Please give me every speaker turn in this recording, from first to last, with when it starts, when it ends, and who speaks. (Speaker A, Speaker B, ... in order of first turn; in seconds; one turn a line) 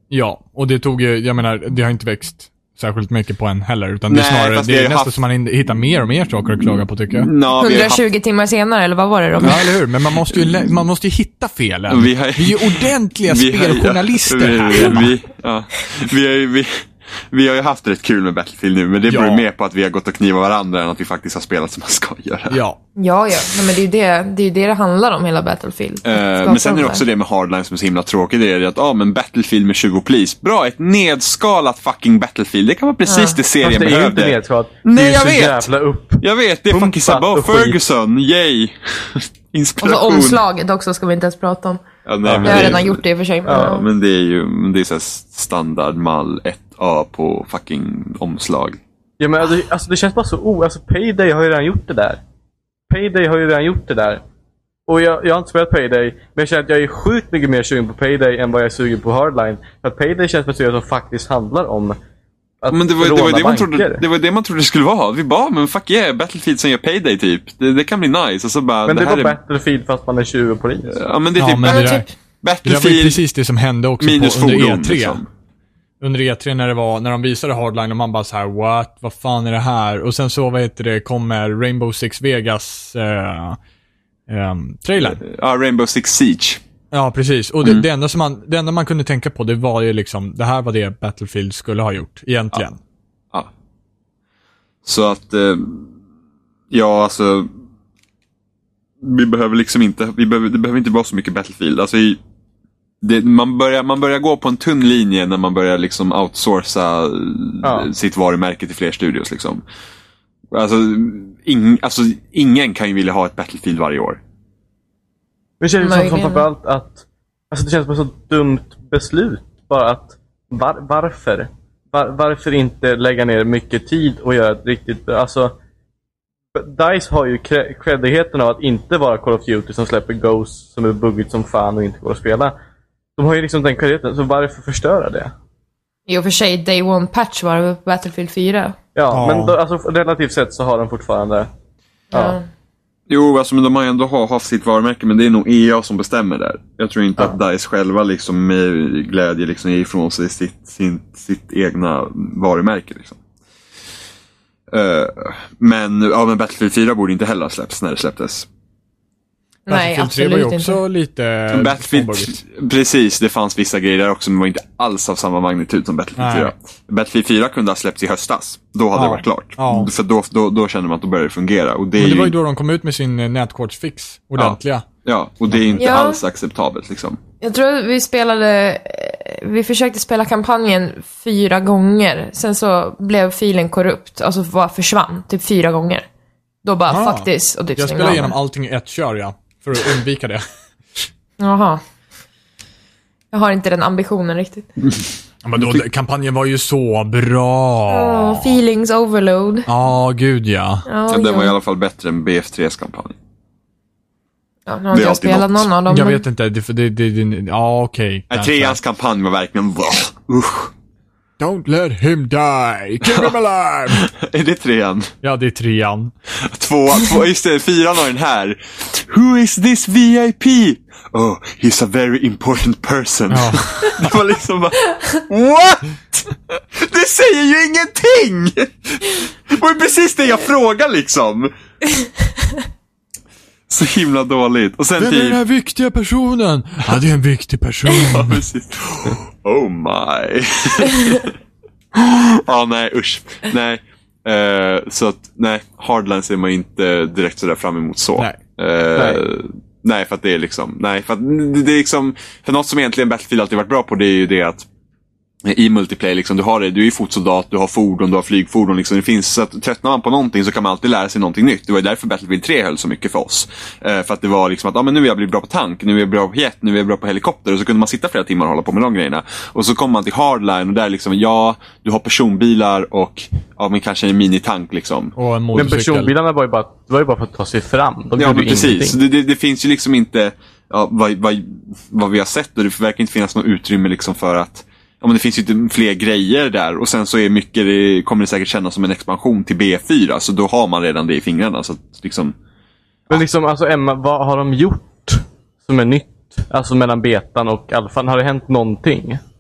Speaker A: 0.1-7.3
Speaker B: 4.1-5.2
Speaker B: 6.6-8.0
Speaker C: 7.6-9.7
Speaker A: 9.4-15.1
Speaker B: 9.4-10.8
Speaker B: 11.9-22.6
Speaker A: 19.1-19.4
Speaker A: 22.5-22.8
Speaker C: 23.0-27.0
Speaker B: 26.1-40.5
Speaker C: 33.1-33.4
Speaker D: 33.6-37.8
Speaker C: 39.8-41.8
Speaker B: 42.1-48.8
Speaker D: 42.2-42.8
Speaker C: 42.4-43.9
Speaker D: 43.5-43.8
Speaker D: 49.2-52.2
Speaker D: 52.9-54.2
Speaker D: 54.9-62.0
Speaker D: 62.6-64.0
Speaker B: 62.7-69.4
Speaker D: 68.8-71.0
Speaker B: 70.9-73.2
Speaker A: 71.4-72.1
Speaker C: 71.6-72.1
Speaker A: 72.7-75.2
Speaker B: 74.0-75.3
Speaker A: 76.0-83.6
Speaker A: 84.3-85.2
Speaker B: 85.0-86.6
Speaker A: 86.9-92.8
Speaker B: 94.8-95.9
Speaker B: 96.7-97.5
Speaker B: 99.0-102.2
Speaker B: 103.0-109.6
Speaker D: 107.6-107.9
Speaker B: 110.5-114.2
Speaker D: 115.6-125.5
Speaker C: 115.8-116.5
Speaker D: 126.5-132.5
Speaker D: 133.2-135.3
Speaker C: 136.1-138.8
Speaker D: 138.9-141.5
Speaker A: 139.1-139.6
Speaker D: 142.1-142.4
Speaker C: 142.1-142.5
Speaker B: 143.1-153.2
Speaker B: 154.7-158.5
Speaker C: 159.7-160.8
Speaker A: 159.7-162.3
Speaker B: 161.5-172.3
Speaker A: 166.2-166.5
Speaker A: 168.9-169.9
Speaker A: 172.0-174.8
Speaker B: 174.4-177.2
Speaker A: 175.5-175.8
Speaker C: 175.8-176.2
Speaker C: 177.4-186.1
Speaker C: 186.6-188.3
Speaker A: 186.9-190.4
Speaker C: 191.4-191.8
Speaker C: 193.3-194.7
Speaker A: 195.4-198.6
Speaker C: 197.9-199.7
Speaker A: 199.7-200.8
Speaker C: 200.9-201.6
Speaker B: 201.1-203.2
Speaker C: 204.7-206.2
Speaker B: 204.9-205.7
Speaker A: 205.9-208.8
Speaker B: 208.3-210.7
Speaker A: 211.4-214.1
Speaker B: 213.9-215.1
Speaker A: 215.2-216.1
Speaker B: 216.4-231.5
Speaker A: 223.3-224.0
Speaker B: 233.7-235.4
Speaker A: 235.0-238.4
Speaker B: 237.9-241.3
Speaker B: 241.9-254.7
Speaker D: 248.9-249.2
Speaker B: 255.4-275.1
Speaker A: 275.2-276.1
Speaker D: 275.5-279.0
Speaker B: 278.2-292.4
Speaker D: 293.1-299.2